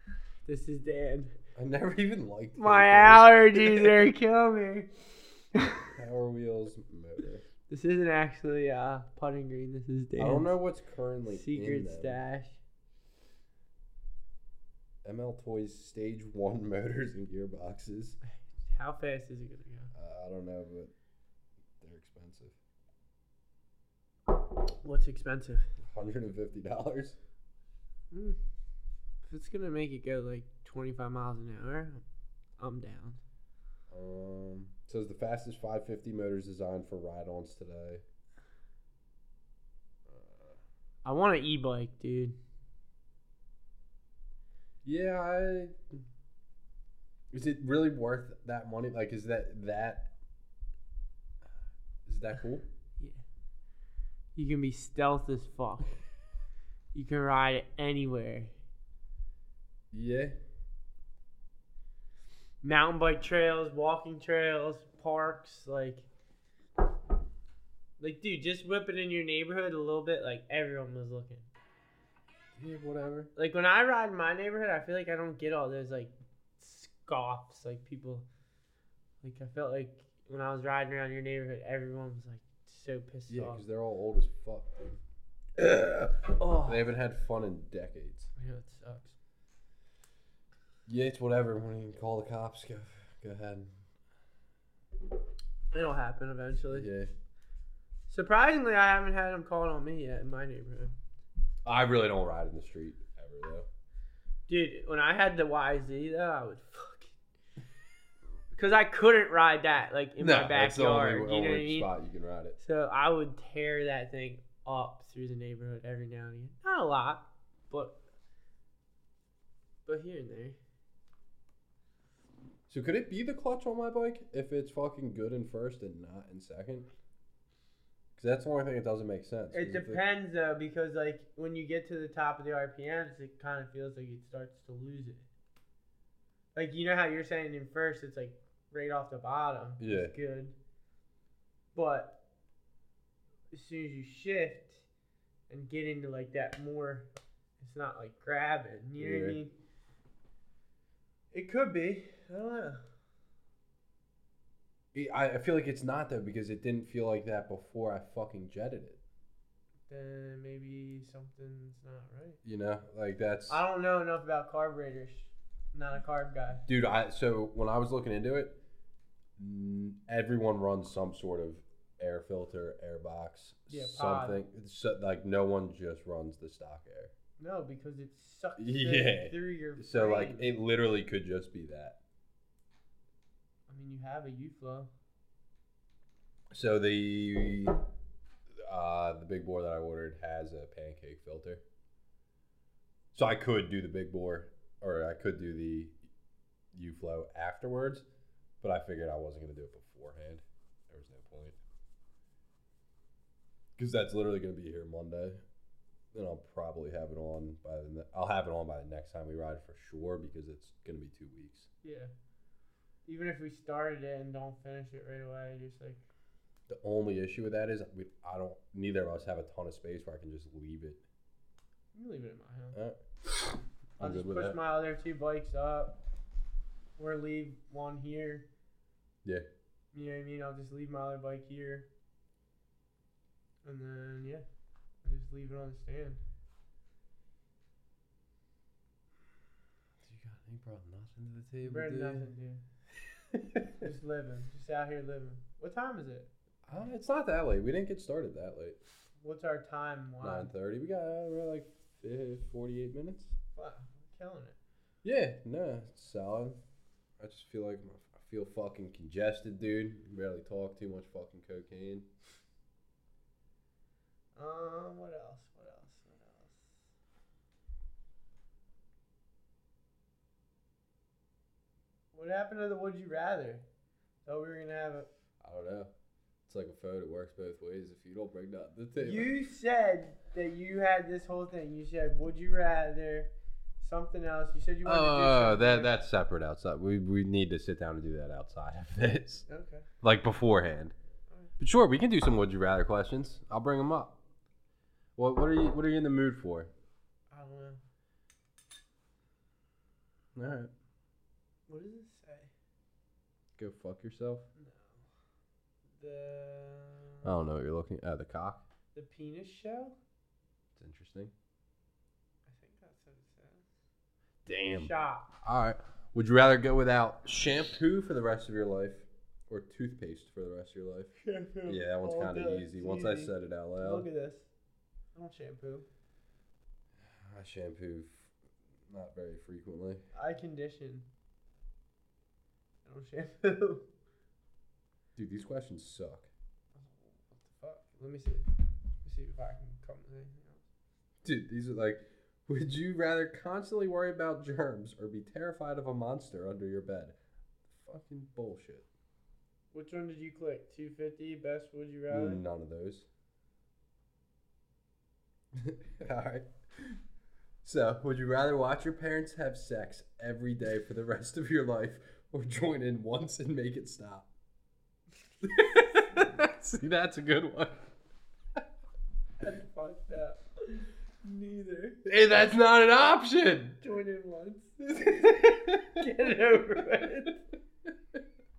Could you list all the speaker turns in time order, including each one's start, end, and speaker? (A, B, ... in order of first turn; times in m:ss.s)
0:00.4-0:01.3 A
0:01.5-0:04.0 B
0:02.6-0:04.9 A
0:05.5-0:05.9 A
0:05.9-0:07.4 B
0:07.7-0:10.5 A
0:10.2-0:12.2 B
0:11.3-0:12.6 A
0:15.0-0:18.2 B
0:18.6-0:19.9 A
0:19.9-0:20.9 B
0:21.8-0:22.5 B
0:24.8-0:25.7 A
0:25.9-0:27.2 B
0:28.1-0:28.4 A
0:29.2-0:32.0 A
0:32.6-0:33.2 A
0:33.9-0:38.0 B
0:40.1-0:40.6 B
0:41.0-0:42.4 A
0:44.8-0:46.0 B
0:47.3-0:50.1 B
0:52.0-0:52.6 B
0:54.3-0:56.0 A
0:56.9-0:58.5 A
0:59.9-1:00.3 B
1:02.6-1:06.0 A
1:08.0-1:11.5 A
1:12.6-1:13.3 B
1:13.4-1:18.2 A
1:19.2-1:23.6 A
1:23.3-1:25.0 B
1:25.6-1:28.3 B
1:26.4-1:26.8 A
1:28.4-1:29.1 A
1:30.8-1:33.8 B
1:35.7-1:36.9 A
1:36.7-1:37.1 B
1:38.1-1:40.9 A
1:41.6-1:43.7 B
1:44.5-1:47.1 A
1:48.5-1:51.9 A
1:50.2-1:52.6 B
1:52.6-1:58.0 A
1:59.8-2:00.6 A
2:02.7-2:06.9 B
2:08.2-2:10.0 B
2:09.5-2:15.2 A
2:16.5-2:20.5 A
2:19.8-2:20.1 B
2:21.7-2:22.1 A
2:23.5-2:24.8 A
2:25.5-2:27.1 A
2:27.6-2:29.5 A
2:29.0-2:29.4 B
2:31.3-2:32.8 A
2:34.9-2:39.0 B
2:39.9-2:42.4 A
2:42.4-2:43.6 B
2:43.5-2:46.6 A
2:46.7-2:48.6 B
2:49.4-2:57.1 B
2:53.7-2:54.4 A
2:57.4-3:00.5 A
2:58.6-3:02.0 B
3:03.7-3:04.9 A
3:06.5-3:07.8 B
3:08.6-3:11.6 B
3:13.1-3:16.0 B
3:16.7-3:18.0 B
3:18.6-3:21.6 B
3:23.8-3:25.4 B
3:26.1-3:31.7 B
3:31.8-3:32.1 A
3:33.0-3:36.0 A
3:36.7-3:41.0 B
3:41.9-3:42.8 A
3:42.7-3:43.0 B
3:44.0-3:44.6 B
3:44.0-3:46.0 A
3:47.0-3:48.4 A
3:49.9-3:51.9 A
3:53.6-3:54.4 A
3:55.0-3:56.2 A
4:00.0-4:02.3 B
4:01.6-4:02.6 A
4:03.4-4:03.8 B
4:03.8-4:06.3 A
4:06.6-4:08.8 B
4:09.2-4:10.5 A
4:10.2-4:13.3 B
4:13.6-4:14.6 A
4:15.0-4:16.6 B
4:17.2-4:22.1 B
4:24.4-4:26.8 A
4:32.1-4:33.6 A
4:34.2-4:35.1 A
4:35.4-4:35.9 B
4:36.4-4:39.3 B
4:39.0-4:45.9 A
4:44.8-4:49.4 B
4:49.5-4:49.8 A
4:50.0-4:50.9 B
4:51.6-4:54.2 B
4:55.2-4:56.7 B
4:57.3-4:57.8 A
5:00.3-5:00.7 B
5:01.7-5:02.5 A
5:03.6-5:04.4 B
5:04.6-5:05.0 A
5:06.0-5:07.3 A
5:07.2-5:08.6 B
5:08.9-5:10.0 A
5:10.8-5:11.3 B
5:12.5-5:13.6 A
5:14.4-5:14.9 B
5:14.7-5:15.3 A
5:15.4-5:21.1 B
5:21.2-5:24.5 A
5:21.6-5:24.1 B
5:25.1-5:25.8 A
5:27.0-5:28.3 B
5:28.9-5:30.0 B
5:30.1-5:31.1 A
5:32.8-5:33.8 A
5:35.2-5:36.3 B
5:36.8-5:38.4 A
5:39.0-5:40.6 A
5:41.2-5:47.1 B
5:47.7-5:48.8 B
5:49.7-5:52.4 A
5:52.1-5:53.0 B
5:55.5-5:57.0 B
5:57.6-6:04.3 B
6:05.4-6:07.9 B
6:09.4-6:12.0 A
6:12.0-6:13.8 B
6:13.8-6:17.4 A
6:15.0-6:16.1 B